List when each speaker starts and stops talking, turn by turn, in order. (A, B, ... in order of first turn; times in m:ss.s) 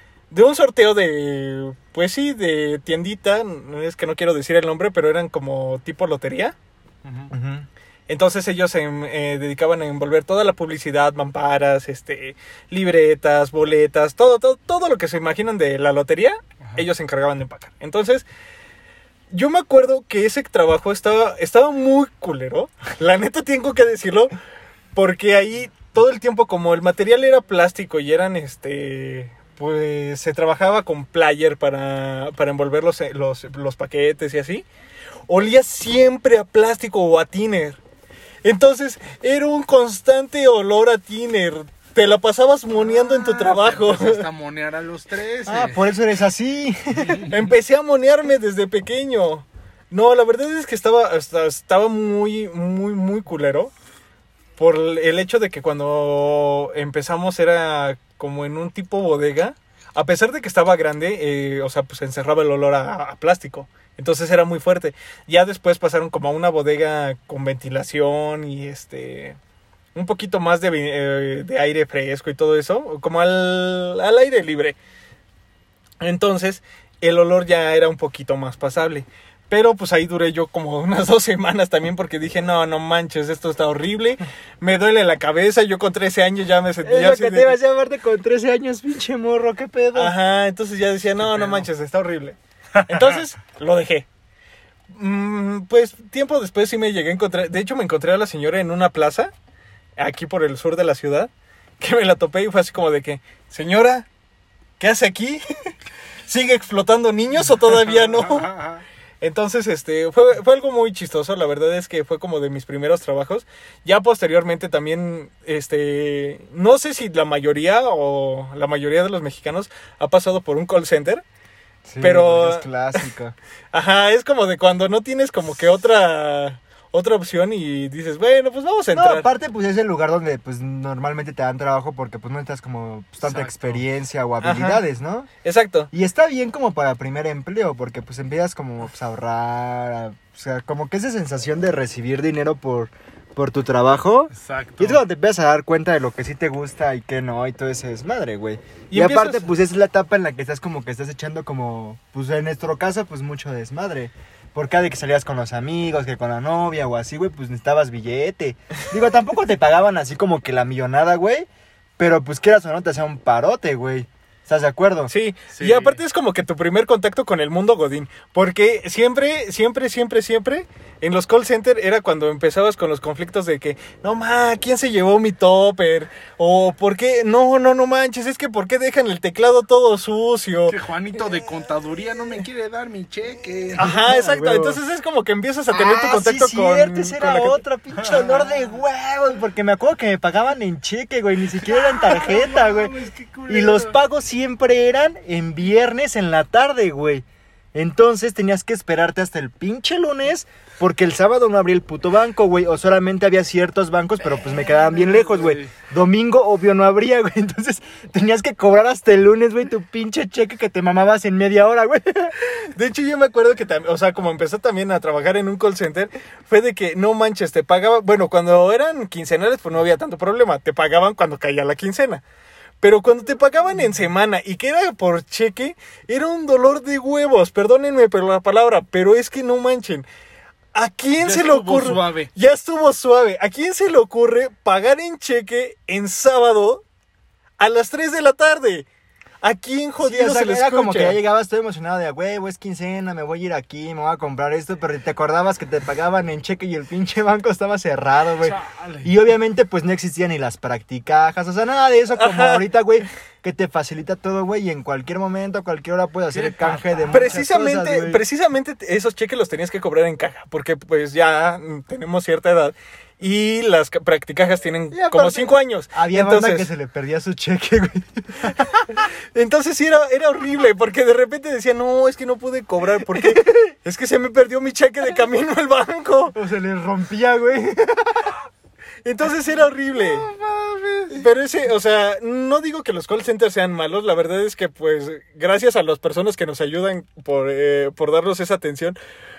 0:00.3-0:06.6 A
0:07.0-0:07.3 B
0:07.3-0:07.7 C
0:08.1-0:18.3 A
0:19.3-0:24.3 A
0:24.9-0:34.7 A
0:35.3-0:37.8 A
0:38.4-0:44.2 A
0:42.8-0:45.8 B
0:45.5-0:47.2 C
0:47.3-0:53.7 A
0:54.6-1:09.4 A
1:10.0-1:14.8 A
1:16.0-1:27.6 A
1:26.8-1:30.1 C
1:30.0-1:34.1 A
1:34.9-1:39.3 A
1:40.0-1:44.1 A
1:44.8-1:45.7 A
1:46.3-1:48.5 A
1:48.2-1:48.8 B
1:49.2-2:01.2 A
2:01.9-2:03.4 C
2:02.0-2:03.0 A
2:03.7-2:09.3 A
2:08.9-2:15.3 C
2:13.2-2:13.8 B
2:14.4-2:14.8 A
2:15.4-2:15.9 A
2:15.9-2:45.1 C
2:24.4-2:25.0 B
2:28.9-2:29.5 A
2:45.1-3:00.8 A
2:45.5-2:46.0 B
3:00.7-3:03.9 B
3:03.8-3:04.8 C
3:03.8-3:07.6 A
3:05.7-3:32.4 C
3:08.0-3:08.7 B
3:11.6-3:14.0 B
3:24.7-3:25.7 B
3:32.5-3:42.2 A
3:42.8-3:50.1 A
3:50.7-3:56.8 A
3:51.2-3:52.3 B
3:57.6-3:58.9 A
3:59.4-4:01.2 A
4:00.0-4:18.2 C
4:08.4-4:09.1 B
4:12.2-4:12.7 A
4:16.3-4:17.4 B
4:17.1-4:26.7 A
4:24.9-4:29.0 C
4:28.5-4:36.4 A
4:33.1-4:33.7 C
4:36.4-4:38.3 C
4:39.0-4:40.3 A
4:39.9-4:41.2 B
4:41.1-4:49.0 A